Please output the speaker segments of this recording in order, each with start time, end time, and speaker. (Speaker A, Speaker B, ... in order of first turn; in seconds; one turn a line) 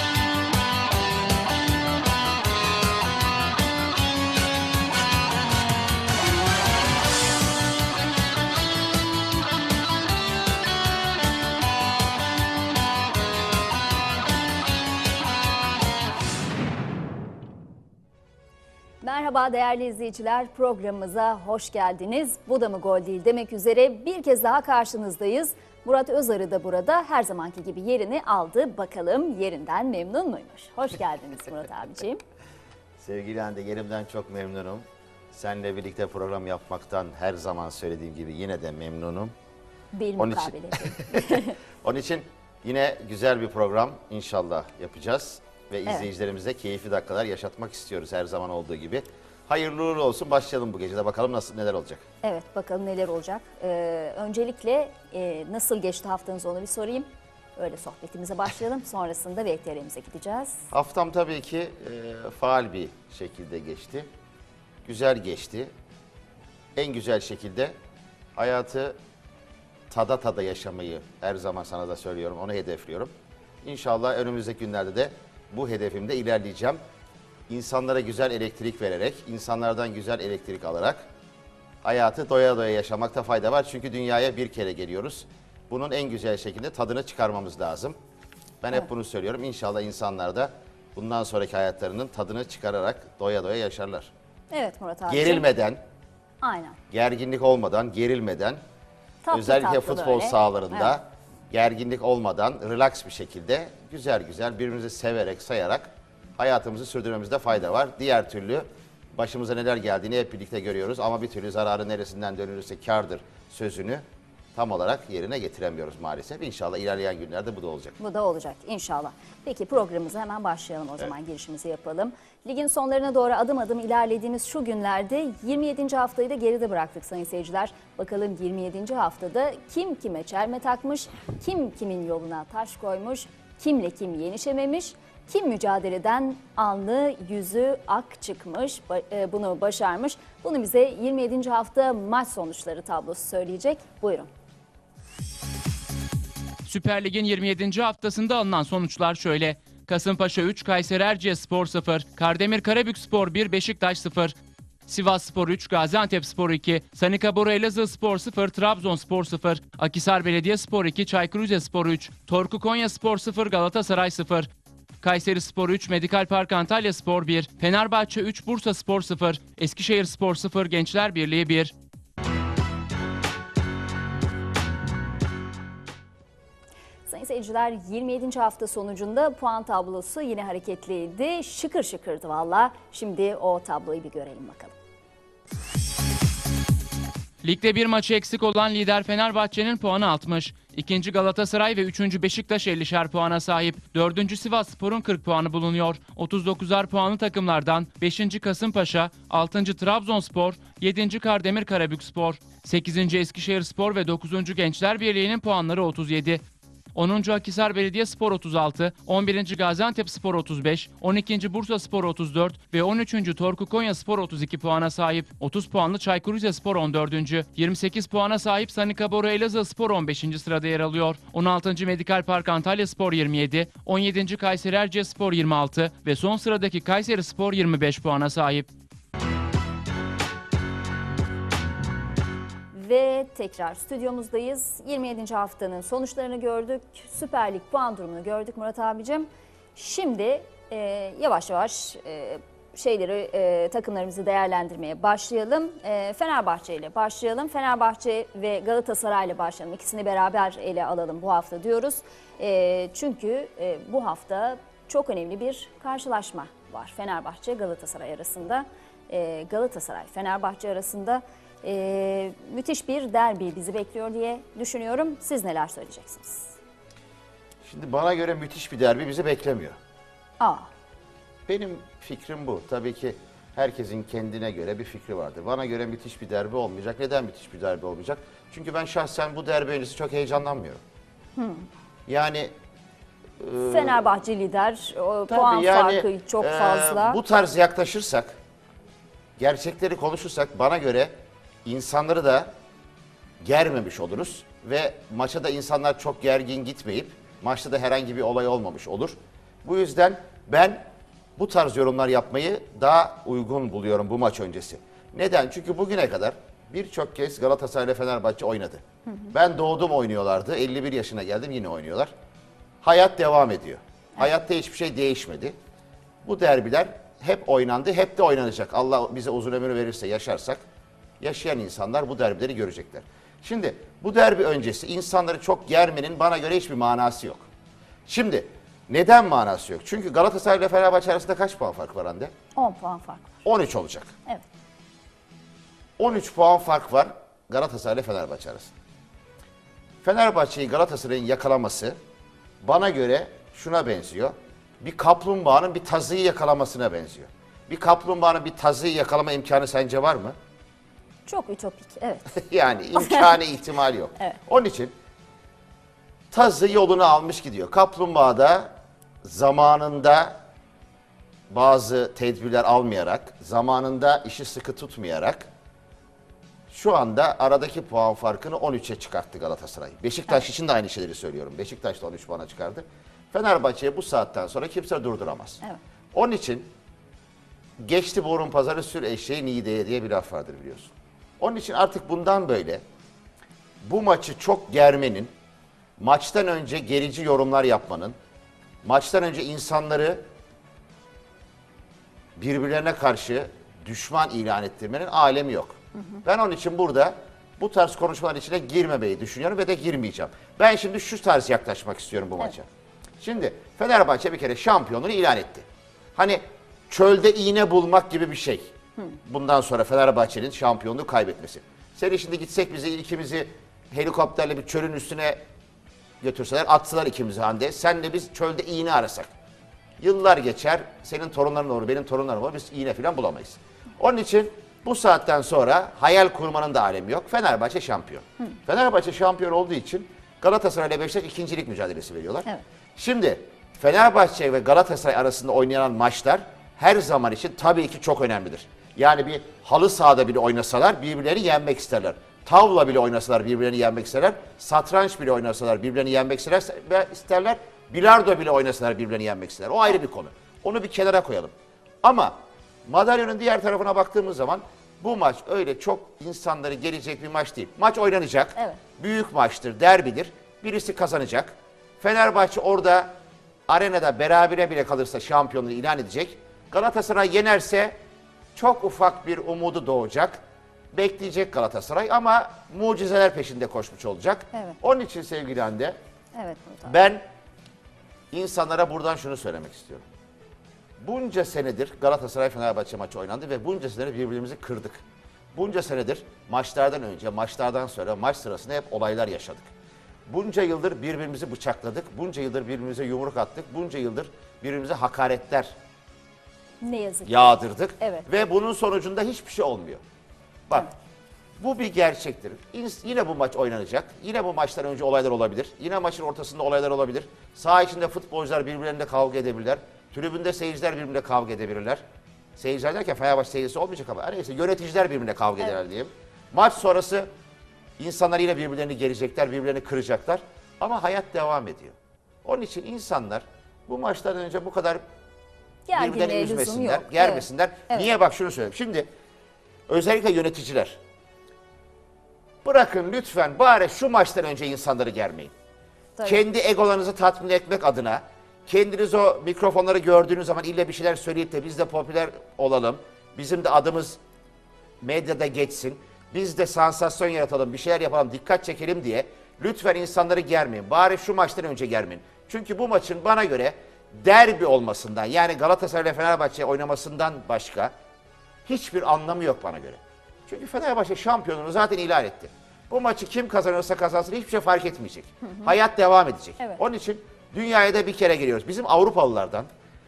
Speaker A: 19.0-32.2
Speaker B: 33.0-39.3
Speaker A: 39.9-41.5
Speaker B: 40.2-52.0
Speaker A: 52.2-60.6
Speaker B: 60.7-64.1
Speaker B: 64.8-65.7
Speaker B: 66.8-67.8
Speaker B: 68.3-69.0
Speaker B: 69.9-73.1
Speaker B: 73.6-76.8
Speaker B: 77.5-81.0
Speaker B: 81.8-88.0
Speaker B: 88.6-94.1
Speaker A: 94.5-95.5
Speaker B: 95.1-95.8
Speaker A: 96.4-96.8
Speaker B: 96.9-98.6
Speaker A: 99.2-100.9
Speaker B: 99.3-114.0
Speaker B: 114.5-117.9
Speaker A: 118.0-144.3
Speaker C: 146.6-154.3
Speaker C: 154.9-164.5
Speaker C: 165.0-171.7
Speaker A: 177.1-184.7
Speaker C: 187.4-206.4
Speaker C: 206.9-228.7
Speaker A: 232.7-266.5
Speaker B: 267.6-269.8
Speaker A: 270.4-270.7
Speaker B: 271.5-280.8
Speaker A: 281.4-281.6
Speaker B: 282.1-282.5
Speaker B: 283.4-284.1
Speaker A: 283.7-287.2
Speaker B: 285.3-288.4
Speaker B: 289.4-291.1
Speaker B: 291.6-292.5
Speaker B: 293.4-300.8
Speaker B: 301.4-312.1
Speaker A: 309.1-309.3
Speaker B: 312.8-315.5
Speaker B: 316.2-320.6
Speaker B: 321.2-327.4
Speaker B: 328.1-332.3
Speaker A: 332.6-333.4
Speaker B: 333.4-334.1
Speaker B: 336.0-338.7
Speaker B: 340.0-342.0
Speaker B: 342.6-350.4
Speaker A: 351.2-352.4
Speaker B: 352.3-354.9
Speaker A: 352.9-353.3
Speaker B: 356.3-358.7
Speaker B: 359.2-360.4
Speaker B: 361.5-365.5
Speaker B: 366.7-375.6
Speaker B: 376.1-376.7
Speaker B: 377.8-382.8
Speaker B: 383.8-385.3
Speaker B: 386.0-388.1
Speaker B: 388.8-390.2
Speaker B: 392.4-402.7
Speaker A: 395.9-396.2
Speaker B: 403.2-408.7
Speaker B: 409.2-415.4
Speaker B: 416.2-419.3
Speaker B: 420.0-432.4
Speaker B: 433.0-451.5
Speaker B: 452.0-463.1
Speaker B: 463.7-468.0
Speaker B: 468.5-470.4
Speaker B: 470.9-476.0
Speaker A: 476.4-476.9
Speaker B: 476.9-477.2
Speaker B: 478.3-480.1
Speaker B: 481.0-485.0
Speaker B: 485.5-489.7
Speaker B: 490.3-495.7
Speaker A: 496.8-498.2
Speaker B: 497.2-500.0
Speaker B: 501.6-512.0
Speaker B: 512.6-517.3
Speaker B: 518.0-525.0
Speaker A: 525.9-528.1
Speaker B: 525.9-529.1
Speaker B: 529.9-531.0
Speaker B: 532.6-535.5
Speaker A: 536.1-536.4
Speaker B: 536.2-544.2
Speaker B: 545.0-557.9
Speaker B: 558.6-569.7
Speaker A: 565.4-565.7